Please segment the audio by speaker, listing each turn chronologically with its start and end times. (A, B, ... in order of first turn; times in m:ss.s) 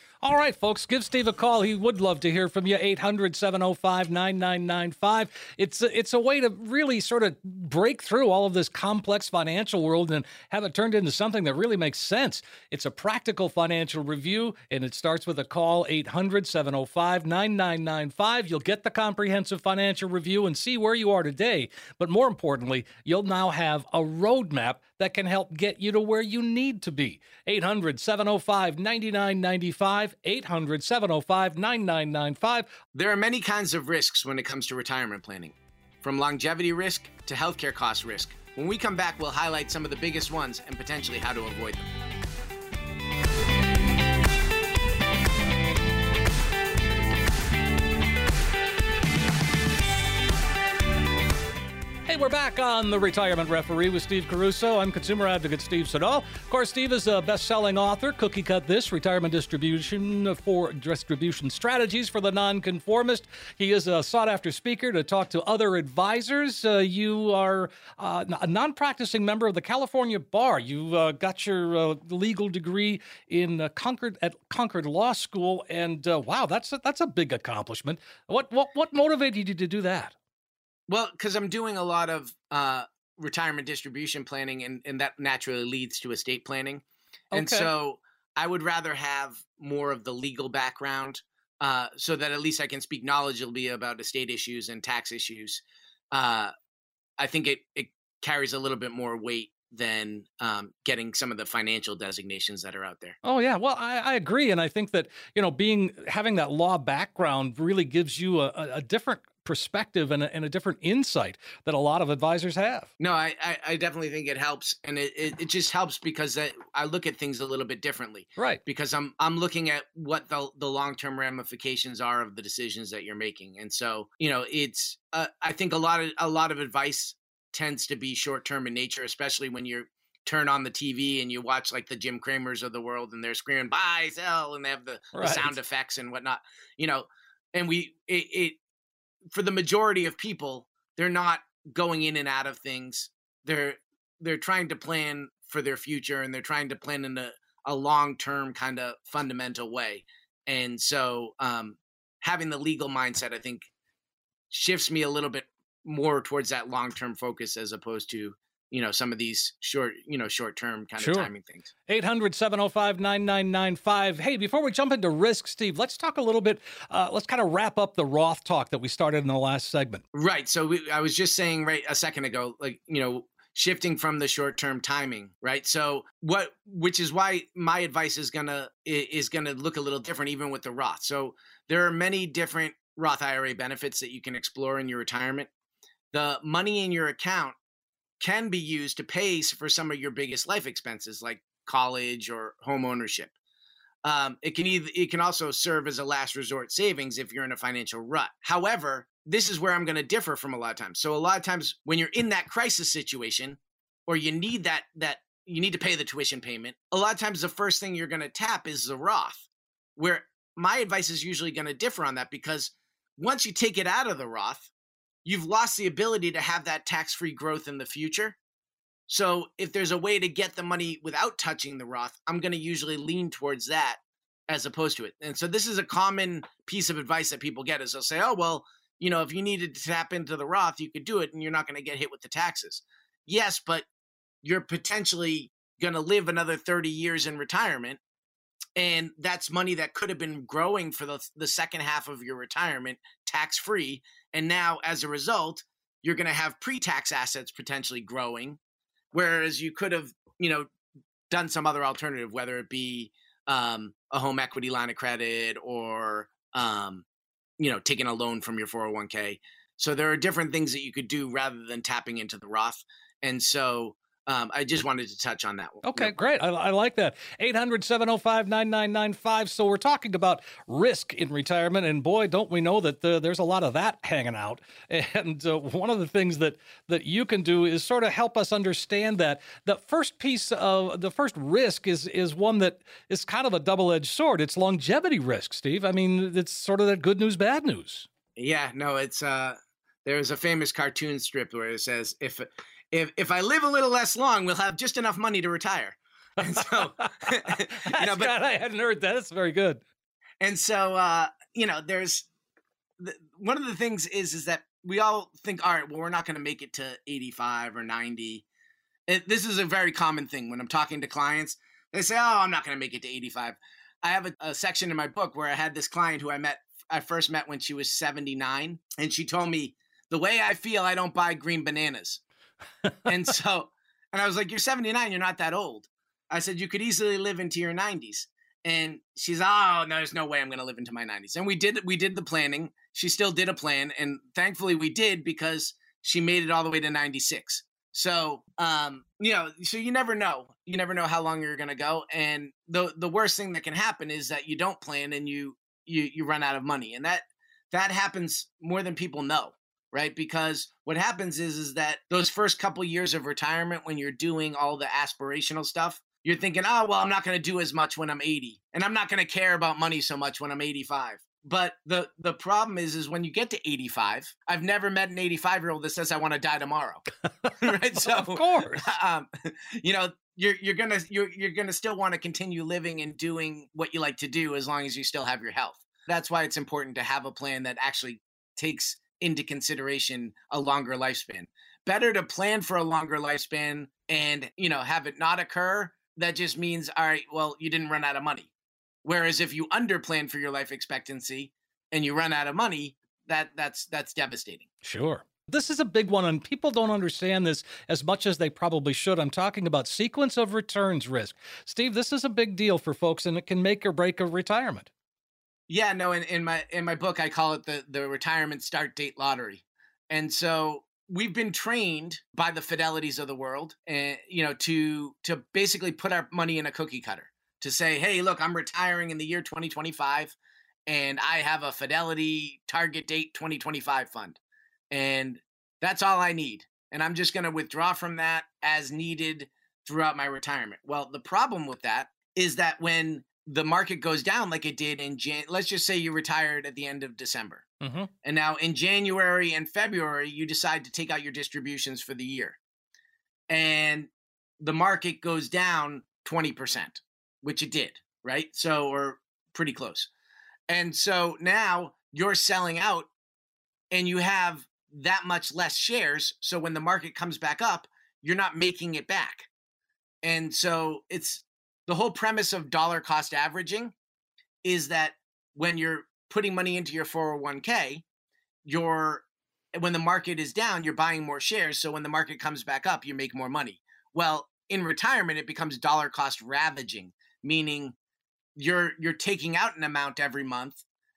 0:00.2-0:32.7 A
0:32.9-0:41.9 B
0:52.1-1:20.1 A
1:20.9-1:36.5 B
1:27.3-1:27.7 A
1:37.2-1:43.2 B
1:43.2-1:52.9 A
1:53.0-2:18.6 B
2:15.1-2:15.5 A
2:19.3-2:33.7 B
2:34.5-2:41.7 B
2:41.0-2:41.3 A
2:41.9-2:50.0 A
2:50.1-3:05.5 B
3:06.1-3:07.6 B
3:08.2-3:13.3 B
3:14.0-3:29.4 B
3:30.0-3:34.7 B
3:35.2-3:38.4 B
3:39.1-3:53.8 B
3:54.4-3:58.0 B
3:58.8-4:08.6 B
4:09.1-4:10.7 B
4:11.3-4:17.0 B
4:17.6-4:26.1 B
4:25.8-4:48.1 A
4:48.4-4:58.3 B
4:57.4-4:59.8 A
5:00.4-5:02.3 B
5:03.0-5:08.4 B
5:09.1-5:22.2 B
5:23.0-6:28.5 B
6:07.9-6:08.9 A
6:29.0-6:34.7 B
6:34.8-6:44.9 A
6:45.7-7:00.4 B
7:00.9-7:04.4 B
7:04.9-7:17.6 B
7:17.8-7:18.1 A
7:18.2-7:22.6 B
7:23.5-7:24.1 B
7:24.6-7:30.1 B
7:30.7-7:33.1 B
7:33.9-7:39.5 B
7:40.2-7:43.9 B
7:44.6-7:48.0 B
7:48.6-7:57.9 B
7:58.6-8:00.8 B